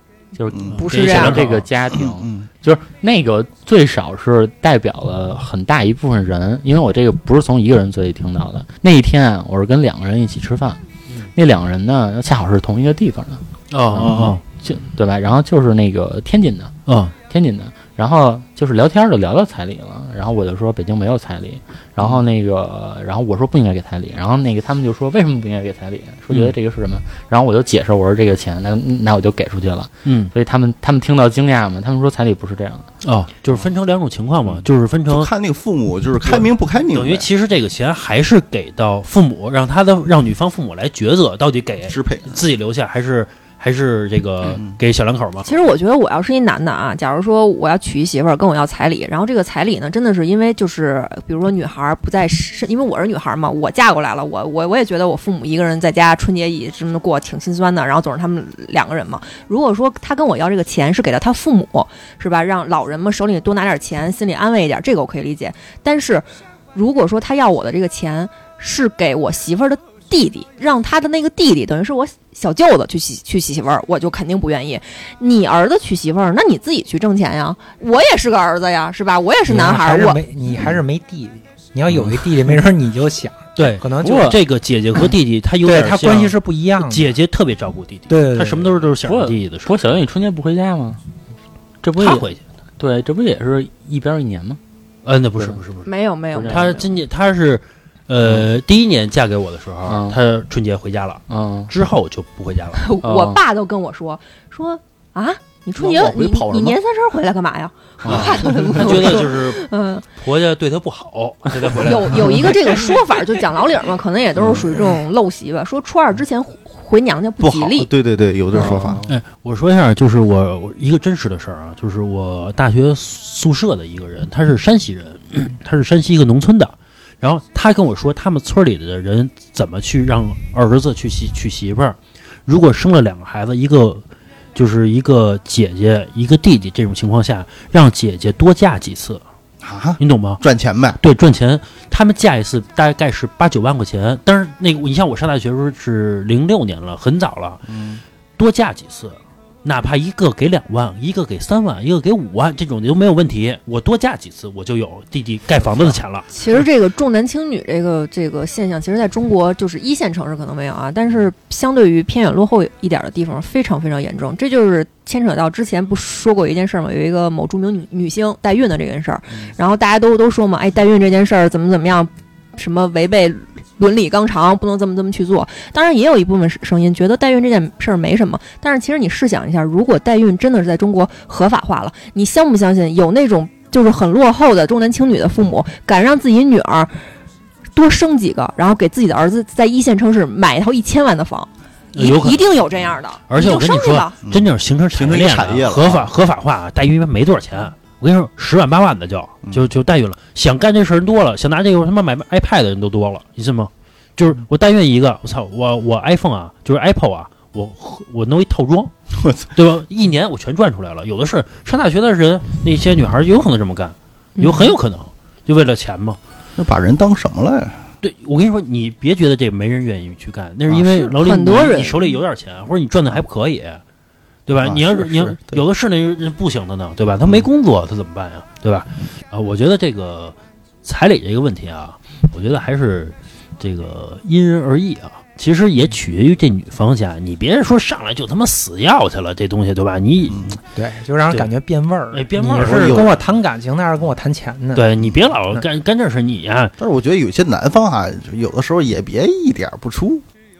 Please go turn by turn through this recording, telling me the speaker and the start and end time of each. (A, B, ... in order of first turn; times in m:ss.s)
0:00.4-0:16.8 A
0:00.5-0:00.8 B
0:00.8-0:01.4 C
0:00.8-0:01.7 D
0:01.9-0:02.5 B
0:13.7-0:14.4 D
0:14.0-0:14.4 B
0:16.9-0:17.1 D
0:17.3-0:32.9 A
0:30.1-0:30.3 D
0:33.0-0:35.3 D
0:34.4-0:37.3 B
0:36.2-0:45.5 D
0:41.9-0:42.4 B
0:45.4-1:20.2 C
1:19.5-1:24.4 E
1:21.9-1:22.2 D
1:23.6-1:29.7 D
1:24.0-1:24.4 A
1:25.6-1:27.2 E
1:28.1-1:28.7 E
1:29.0-1:31.0 A
1:31.8-1:32.3 A
1:32.0-1:32.4 D
1:32.8-1:34.6 A
1:35.0-1:35.9 D
1:35.8-1:36.9 C
1:36.4-1:36.8 A
1:36.4-1:42.8 D
1:39.9-1:40.2 A
1:41.3-1:41.7 A
1:42.7-1:50.0 C
1:43.0-1:43.4 A
1:45.8-1:46.8 A
1:48.0-1:48.6 A
1:48.0-1:52.9 D
1:51.8-1:57.9 C
1:54.4-1:54.9 B
1:57.4-1:59.1 B
1:58.5-1:59.0 C
1:59.1-2:14.0 D
2:14.6-2:19.2 D
2:19.6-2:21.0 B
2:20.0-2:20.4 D
2:21.0-2:27.6 D
2:27.7-2:28.0 B
2:28.4-2:36.3 D
2:36.3-3:07.0 C
3:07.7-3:14.2 C
3:11.9-3:12.5 D
3:13.3-3:28.9 D
3:14.2-3:16.1 B
3:29.2-3:29.5 B
3:29.5-3:36.2 D
3:34.4-3:34.8 C
3:36.6-3:37.8 B
3:38.0-3:43.8 D
3:41.0-3:42.1 C
3:44.5-4:00.6 D
3:44.6-3:45.6 B
4:00.3-4:00.6 B
4:00.7-4:04.9 E
4:02.1-4:03.1 D
4:02.5-4:03.1 B
4:04.8-4:06.7 D
4:06.8-4:10.2 B